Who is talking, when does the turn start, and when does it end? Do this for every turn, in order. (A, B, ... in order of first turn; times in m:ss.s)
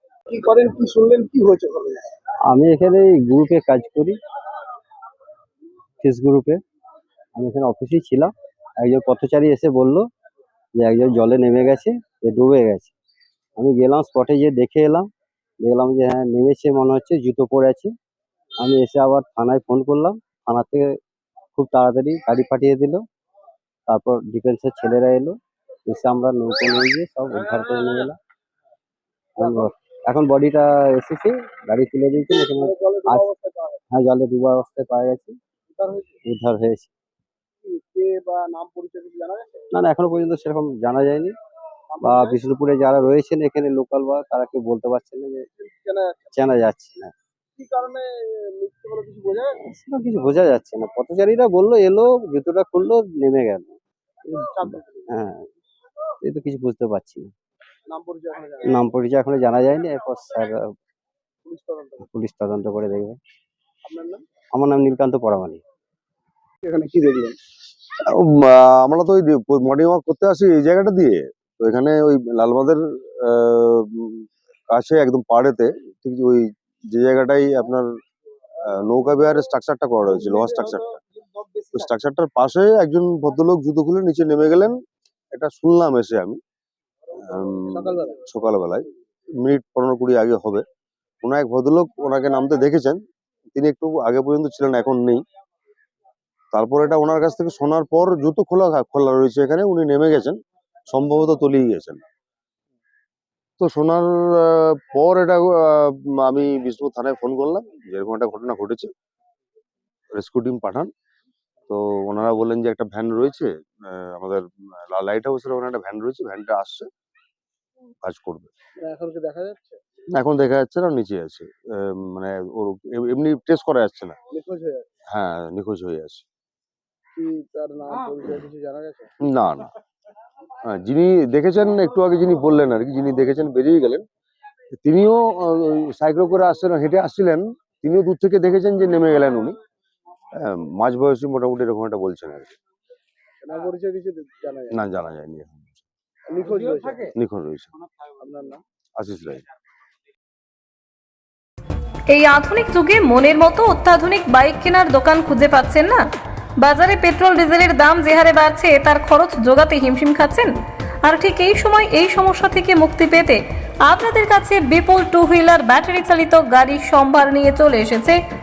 0:00.3-0:02.1 A
0:02.5-0:04.2 B
0:06.0-0:06.6 B
0:07.4-0:10.1 B
0:10.8-0:12.9 B
0:13.6-0:15.1 B
0:15.6-0:17.9 B
0:18.6-0:21.0 B
0:21.6-0:23.0 B
0:23.9-0:28.2 B
0:29.4-0:33.3 B
0:32.6-0:33.8 A
0:33.9-0:35.4 B
0:35.8-0:36.2 A
0:36.3-0:36.9 B
0:37.6-0:39.7 A
0:39.7-0:41.3 B
0:42.0-0:42.4 A
0:42.0-0:45.5 B
0:45.6-0:46.3 A
0:46.3-0:47.1 B
0:47.6-0:49.5 A
0:49.6-0:53.8 B
0:54.4-0:55.1 A
0:55.1-0:55.5 B
0:56.2-0:57.3 B
0:57.9-0:58.8 A
0:58.6-1:00.7 B
1:01.4-1:02.1 A
1:02.0-1:03.2 B
1:03.8-1:04.2 A
1:04.5-1:05.6 B
1:06.6-1:07.4 A
1:08.1-1:17.9 C
1:18.8-1:21.0 C
1:20.1-1:21.9 A
1:21.8-1:24.8 C
1:25.3-1:26.4 C
1:27.1-1:28.5 A
1:27.2-1:27.5 C
1:28.3-1:28.8 C
1:29.4-1:30.6 C
1:31.2-1:33.0 C
1:33.6-1:35.2 C
1:36.5-1:42.0 C
1:43.6-1:48.9 C
1:50.2-1:50.9 C
1:51.7-1:56.9 C
1:58.0-1:58.5 C
1:58.8-1:59.8 A
2:00.2-2:04.2 C
2:04.3-2:04.9 A
2:05.1-2:06.2 C
2:07.1-2:09.1 A
2:09.3-2:09.7 C
2:10.7-2:14.0 C
2:14.8-2:19.6 C
2:20.4-2:22.5 C
2:23.4-2:24.8 A
2:24.8-2:25.8 C
2:26.3-2:27.1 A
2:27.2-2:27.7 C
2:28.2-2:28.6 A
2:29.0-2:29.4 C
2:32.1-2:36.0 D
2:36.6-2:48.2 D